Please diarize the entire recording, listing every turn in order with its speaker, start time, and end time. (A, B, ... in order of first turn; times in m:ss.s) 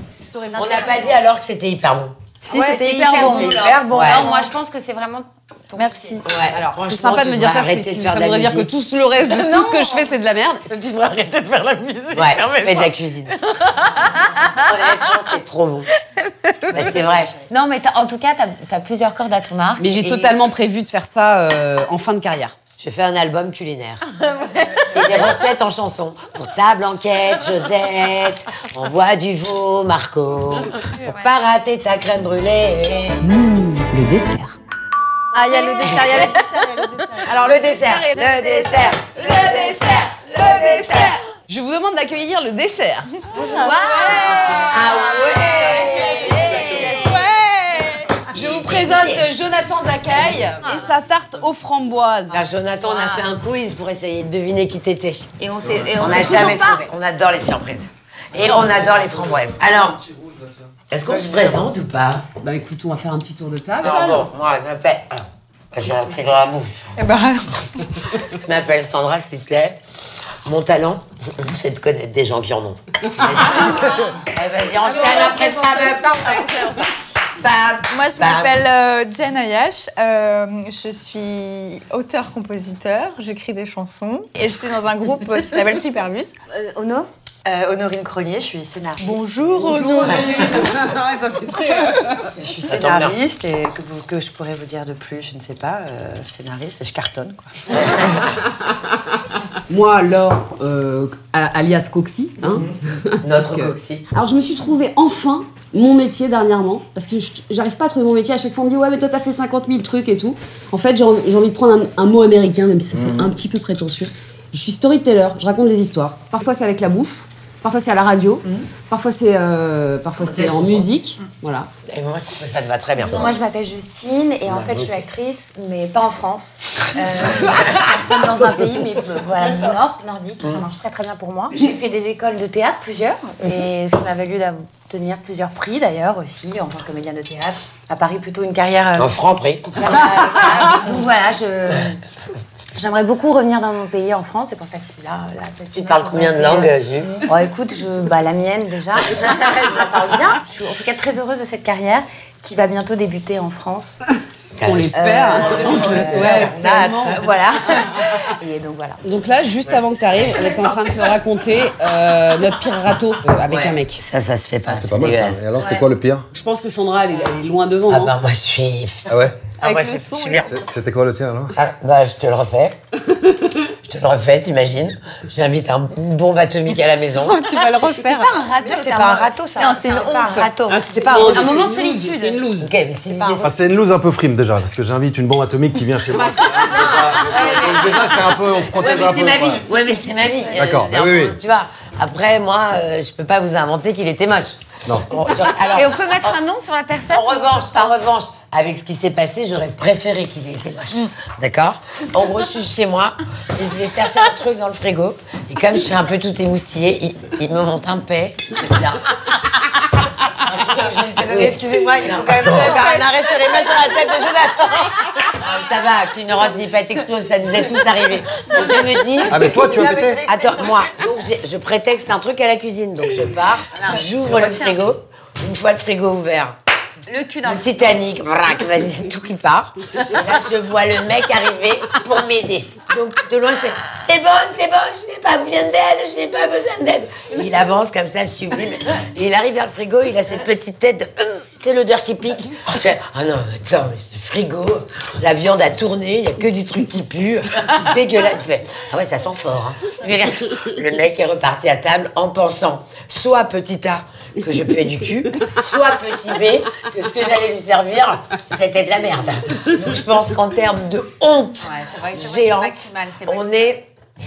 0:00.2-0:01.2 A
0:00.5-0:02.2 B
0:00.6-0:01.1 C
0:02.4-0:04.4 D
0:02.4-0:06.3 C
0:03.1-0:03.9 A
0:03.8-0:04.4 B
0:05.8-0:06.3 D
0:06.2-0:08.7 B
0:06.5-0:10.9 A
0:09.2-0:10.1 C
0:11.1-0:12.9 E
0:12.1-0:13.3 B
0:13.3-0:15.0 C
0:14.4-0:15.9 B
0:16.1-0:20.3 C
0:16.7-0:17.3 B
0:16.7-0:17.5 E
0:19.8-0:22.5 A
0:22.8-0:24.0 B
0:24.1-0:25.2 C
0:24.8-0:33.3 B
0:30.9-0:31.3 C
0:33.2-0:34.5 A
0:35.3-0:37.5 D
0:35.6-0:36.0 C
0:35.8-0:36.3 B
0:37.2-0:43.1 A
0:37.4-0:41.2 B
0:43.3-0:44.9 D
0:43.5-0:47.2 C
0:44.7-0:47.0 B
0:45.7-0:52.4 A
0:46.9-0:48.2 D
0:48.3-0:49.3 B
0:52.3-0:55.3 B
0:52.8-0:53.3 C
0:55.4-0:56.8 C
0:56.0-1:00.0 B
1:00.9-1:02.2 B
1:02.4-1:04.2 A
1:03.8-1:06.9 B
1:07.0-1:07.8 D
1:08.2-1:09.8 B
1:10.4-1:16.7 B
1:14.8-1:16.8 C
1:17.4-1:18.6 B
1:17.9-1:26.3 D
1:26.5-1:27.1 C
1:27.4-1:29.4 E
1:29.0-1:30.6 D
1:29.6-1:32.3 A
1:32.3-1:37.8 E
1:32.7-1:33.1 B
1:39.7-2:01.7 A
1:43.2-1:44.0 B
2:00.2-2:00.8 B
2:01.9-2:03.3 B
2:03.0-2:19.1 C
2:19.0-2:20.1 B
2:19.7-2:22.0 C
2:22.7-2:34.0 C
2:25.7-2:27.2 B
2:34.6-2:36.5 B
2:34.6-2:37.2 A
2:34.9-2:39.0 C
2:35.6-2:37.3 E
2:39.0-2:44.0 A
2:40.3-2:41.2 C
2:43.4-2:45.4 B
2:44.7-2:46.3 F
2:45.6-2:45.8 C
2:46.3-2:48.1 A
2:47.9-2:50.5 B
2:49.1-2:49.6 F
2:49.6-2:50.6 D
2:50.4-2:51.6 F
2:51.6-2:52.8 B
2:53.6-2:57.4 B
2:57.2-2:58.4 D
2:57.9-3:00.3 C
2:58.6-3:01.4 E
2:59.6-3:00.5 D
3:00.7-3:02.7 A
3:01.0-3:02.4 C
3:02.6-3:03.5 B
3:03.1-3:03.5 E
3:03.4-3:09.7 F
3:06.4-3:08.0 C
3:07.3-3:08.0 B
3:08.8-3:16.4 B
3:08.8-3:09.4 C
3:10.5-3:11.4 F
3:15.6-3:18.0 C
3:17.1-3:29.0 B
3:30.3-3:33.0 B
3:30.5-3:35.4 E
3:35.3-3:39.4 B
3:38.4-3:41.0 E
3:39.3-3:40.2 F
3:40.2-3:46.6 B
3:43.8-3:44.8 C
3:47.1-3:48.0 C
3:47.4-4:23.8 B
4:21.6-4:23.8 C